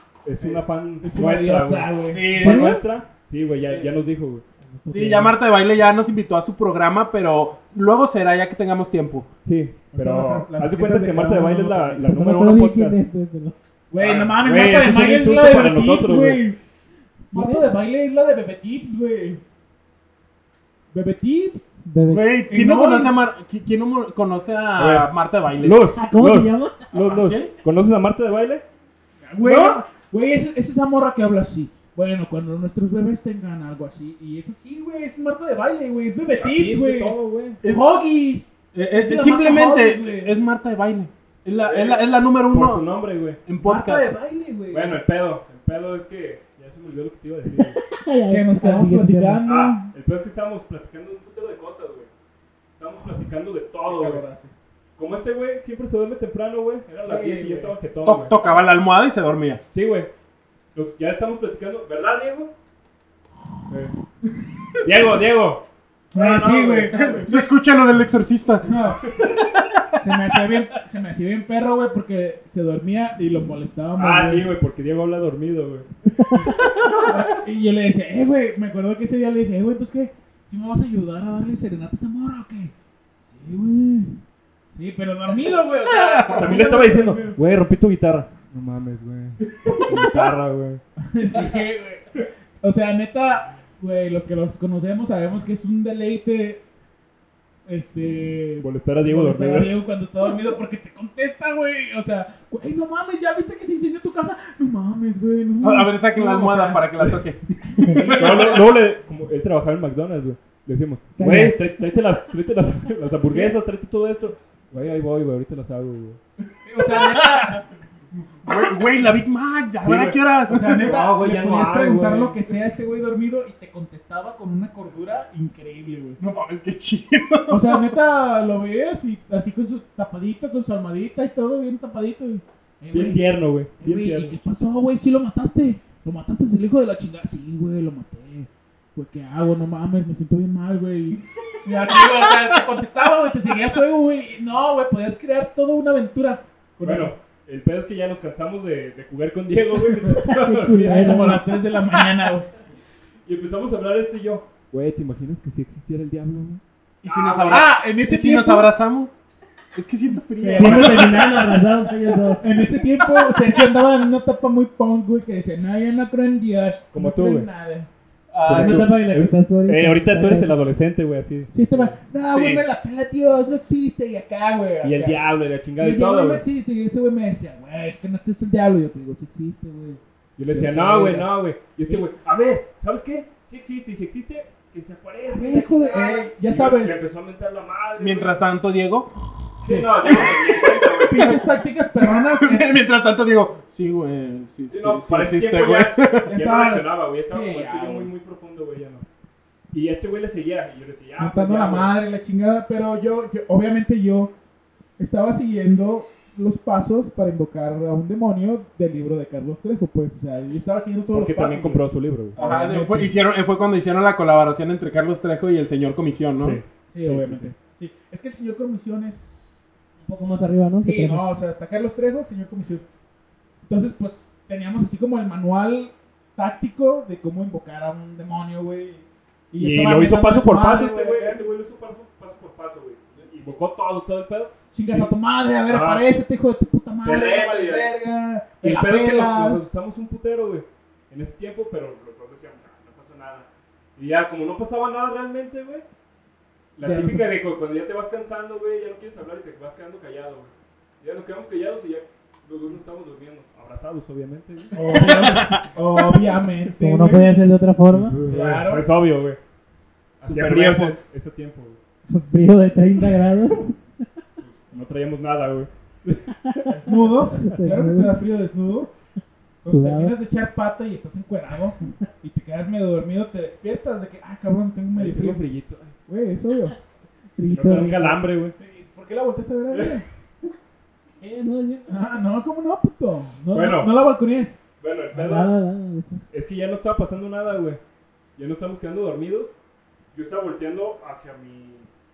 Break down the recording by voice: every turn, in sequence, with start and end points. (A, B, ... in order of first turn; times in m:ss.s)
0:00.2-0:04.4 A
0:00.4-0:02.4 B
0:02.0-0:02.8 C
0:02.4-0:02.8 D
0:04.8-0:05.4 D
0:04.9-0:09.3 C
0:09.4-0:13.0 A
0:09.9-0:12.0 B
0:12.0-0:13.6 D
0:13.9-0:16.6 B
0:14.0-0:16.4 A
0:17.3-0:17.7 D
0:17.3-0:19.4 B
0:20.9-0:21.7 B
0:21.8-0:22.3 D
0:22.1-0:25.8 C
0:22.5-0:23.2 B
0:24.8-0:28.6 A
0:26.0-0:26.8 D
0:26.9-0:27.5 C
0:29.2-0:40.3 B
0:29.4-0:29.8 A
0:36.3-0:37.6 A
0:37.6-0:37.9 C
0:38.7-0:42.8 C
0:41.6-0:43.4 A
0:43.5-0:44.1 C
0:43.6-0:45.0 B
0:44.7-0:47.8 A
0:47.6-0:49.4 D
0:48.3-0:49.9 B
0:49.4-0:52.1 A
0:52.8-0:54.2 A
0:53.9-0:54.5 B
0:55.0-0:58.4 A
0:57.0-0:57.7 B
0:58.0-0:59.6 C
0:59.7-1:00.1 A
1:00.7-1:02.5 A
1:04.8-1:05.6 A
1:06.1-1:07.3 A
1:06.1-1:07.5 B
1:06.9-1:10.6 C
1:08.6-1:09.0 B
1:09.0-1:09.4 A
1:10.0-1:14.5 B
1:14.0-1:16.5 A
1:16.2-1:16.5 D
1:16.6-1:17.1 C
1:17.0-1:22.7 B
1:23.3-1:24.2 B
1:24.7-1:27.4 B
1:25.9-1:26.5 C
1:26.4-1:30.8 A
1:29.6-1:30.2 C
1:31.0-1:36.6 B
1:37.7-1:48.7 B
1:38.6-1:39.7 A
1:45.6-1:48.6 C
1:48.0-1:56.2 A
1:51.2-1:51.6 D
1:53.3-1:53.6 B
1:56.6-1:57.6 B
1:56.8-1:57.6 C
1:58.4-2:00.9 C
1:59.8-2:02.4 A
2:00.5-2:06.2 B
2:06.2-2:07.9 C
2:07.5-2:13.2 B
2:12.9-2:14.4 A
2:13.8-2:27.1 B
2:21.8-2:22.6 C
2:26.8-2:31.4 A
2:30.2-2:31.5 D
2:30.8-2:32.5 B
2:33.3-2:37.6 A
2:37.0-2:39.2 C
2:37.5-2:38.7 B
2:39.8-2:41.5 C
2:40.4-2:41.3 B
2:40.6-2:42.4 D
2:40.6-2:41.1 A
2:42.4-2:47.9 B
2:42.6-2:43.6 C
2:46.9-2:47.5 A
2:48.3-2:48.9 C
2:48.4-2:52.0 A
2:48.5-2:50.6 D
2:51.5-2:55.2 B
2:52.2-2:52.6 C
2:54.8-2:56.4 A
2:55.8-3:00.0 B
3:00.4-3:08.4 A
3:00.5-3:01.3 B
3:05.3-3:07.0 B
3:08.0-3:09.1 C
3:09.6-3:11.4 A
3:09.6-3:10.1 B
3:10.0-3:16.3 C
3:11.1-3:12.7 B
3:14.7-3:19.0 A
3:16.3-3:18.1 B
3:19.7-3:22.0 A
3:21.2-3:24.3 B
3:25.0-3:31.8 B
3:31.1-3:32.5 A
3:32.4-3:33.1 B
3:32.4-3:36.6 C
3:36.4-3:37.5 A
3:36.9-3:39.6 B
3:40.0-3:41.2 D
3:40.2-3:42.8 B
3:43.7-3:51.4 B
3:49.6-3:55.1 A
3:54.7-3:59.6 B
3:55.7-3:56.0 A
3:57.0-3:57.9 A
3:58.6-4:05.8 A
4:06.8-4:15.4 A
4:06.8-4:07.3 B
4:14.7-4:17.4 B
4:14.9-4:15.6 C
4:16.8-4:18.2 D
4:17.9-4:19.4 A
4:18.3-4:18.9 B
4:20.2-4:21.8 A
4:20.2-4:21.0 C
4:22.1-4:23.8 D
4:24.4-4:26.7 A
4:26.7-4:28.9 B
4:27.3-4:28.2 D
4:29.6-4:35.4 B
4:29.7-4:30.2 D
4:34.9-4:36.0 A
4:36.1-4:36.8 B
4:37.4-4:38.2 D
4:37.4-4:38.6 A
4:38.6-4:40.1 B
4:39.7-4:40.0 A
4:41.2-4:42.0 D
4:41.9-4:44.6 B
4:43.5-4:43.9 A
4:44.8-4:45.5 A
4:45.1-4:46.2 D
4:46.3-4:47.8 A
4:48.4-4:49.5 A
4:50.1-4:51.9 A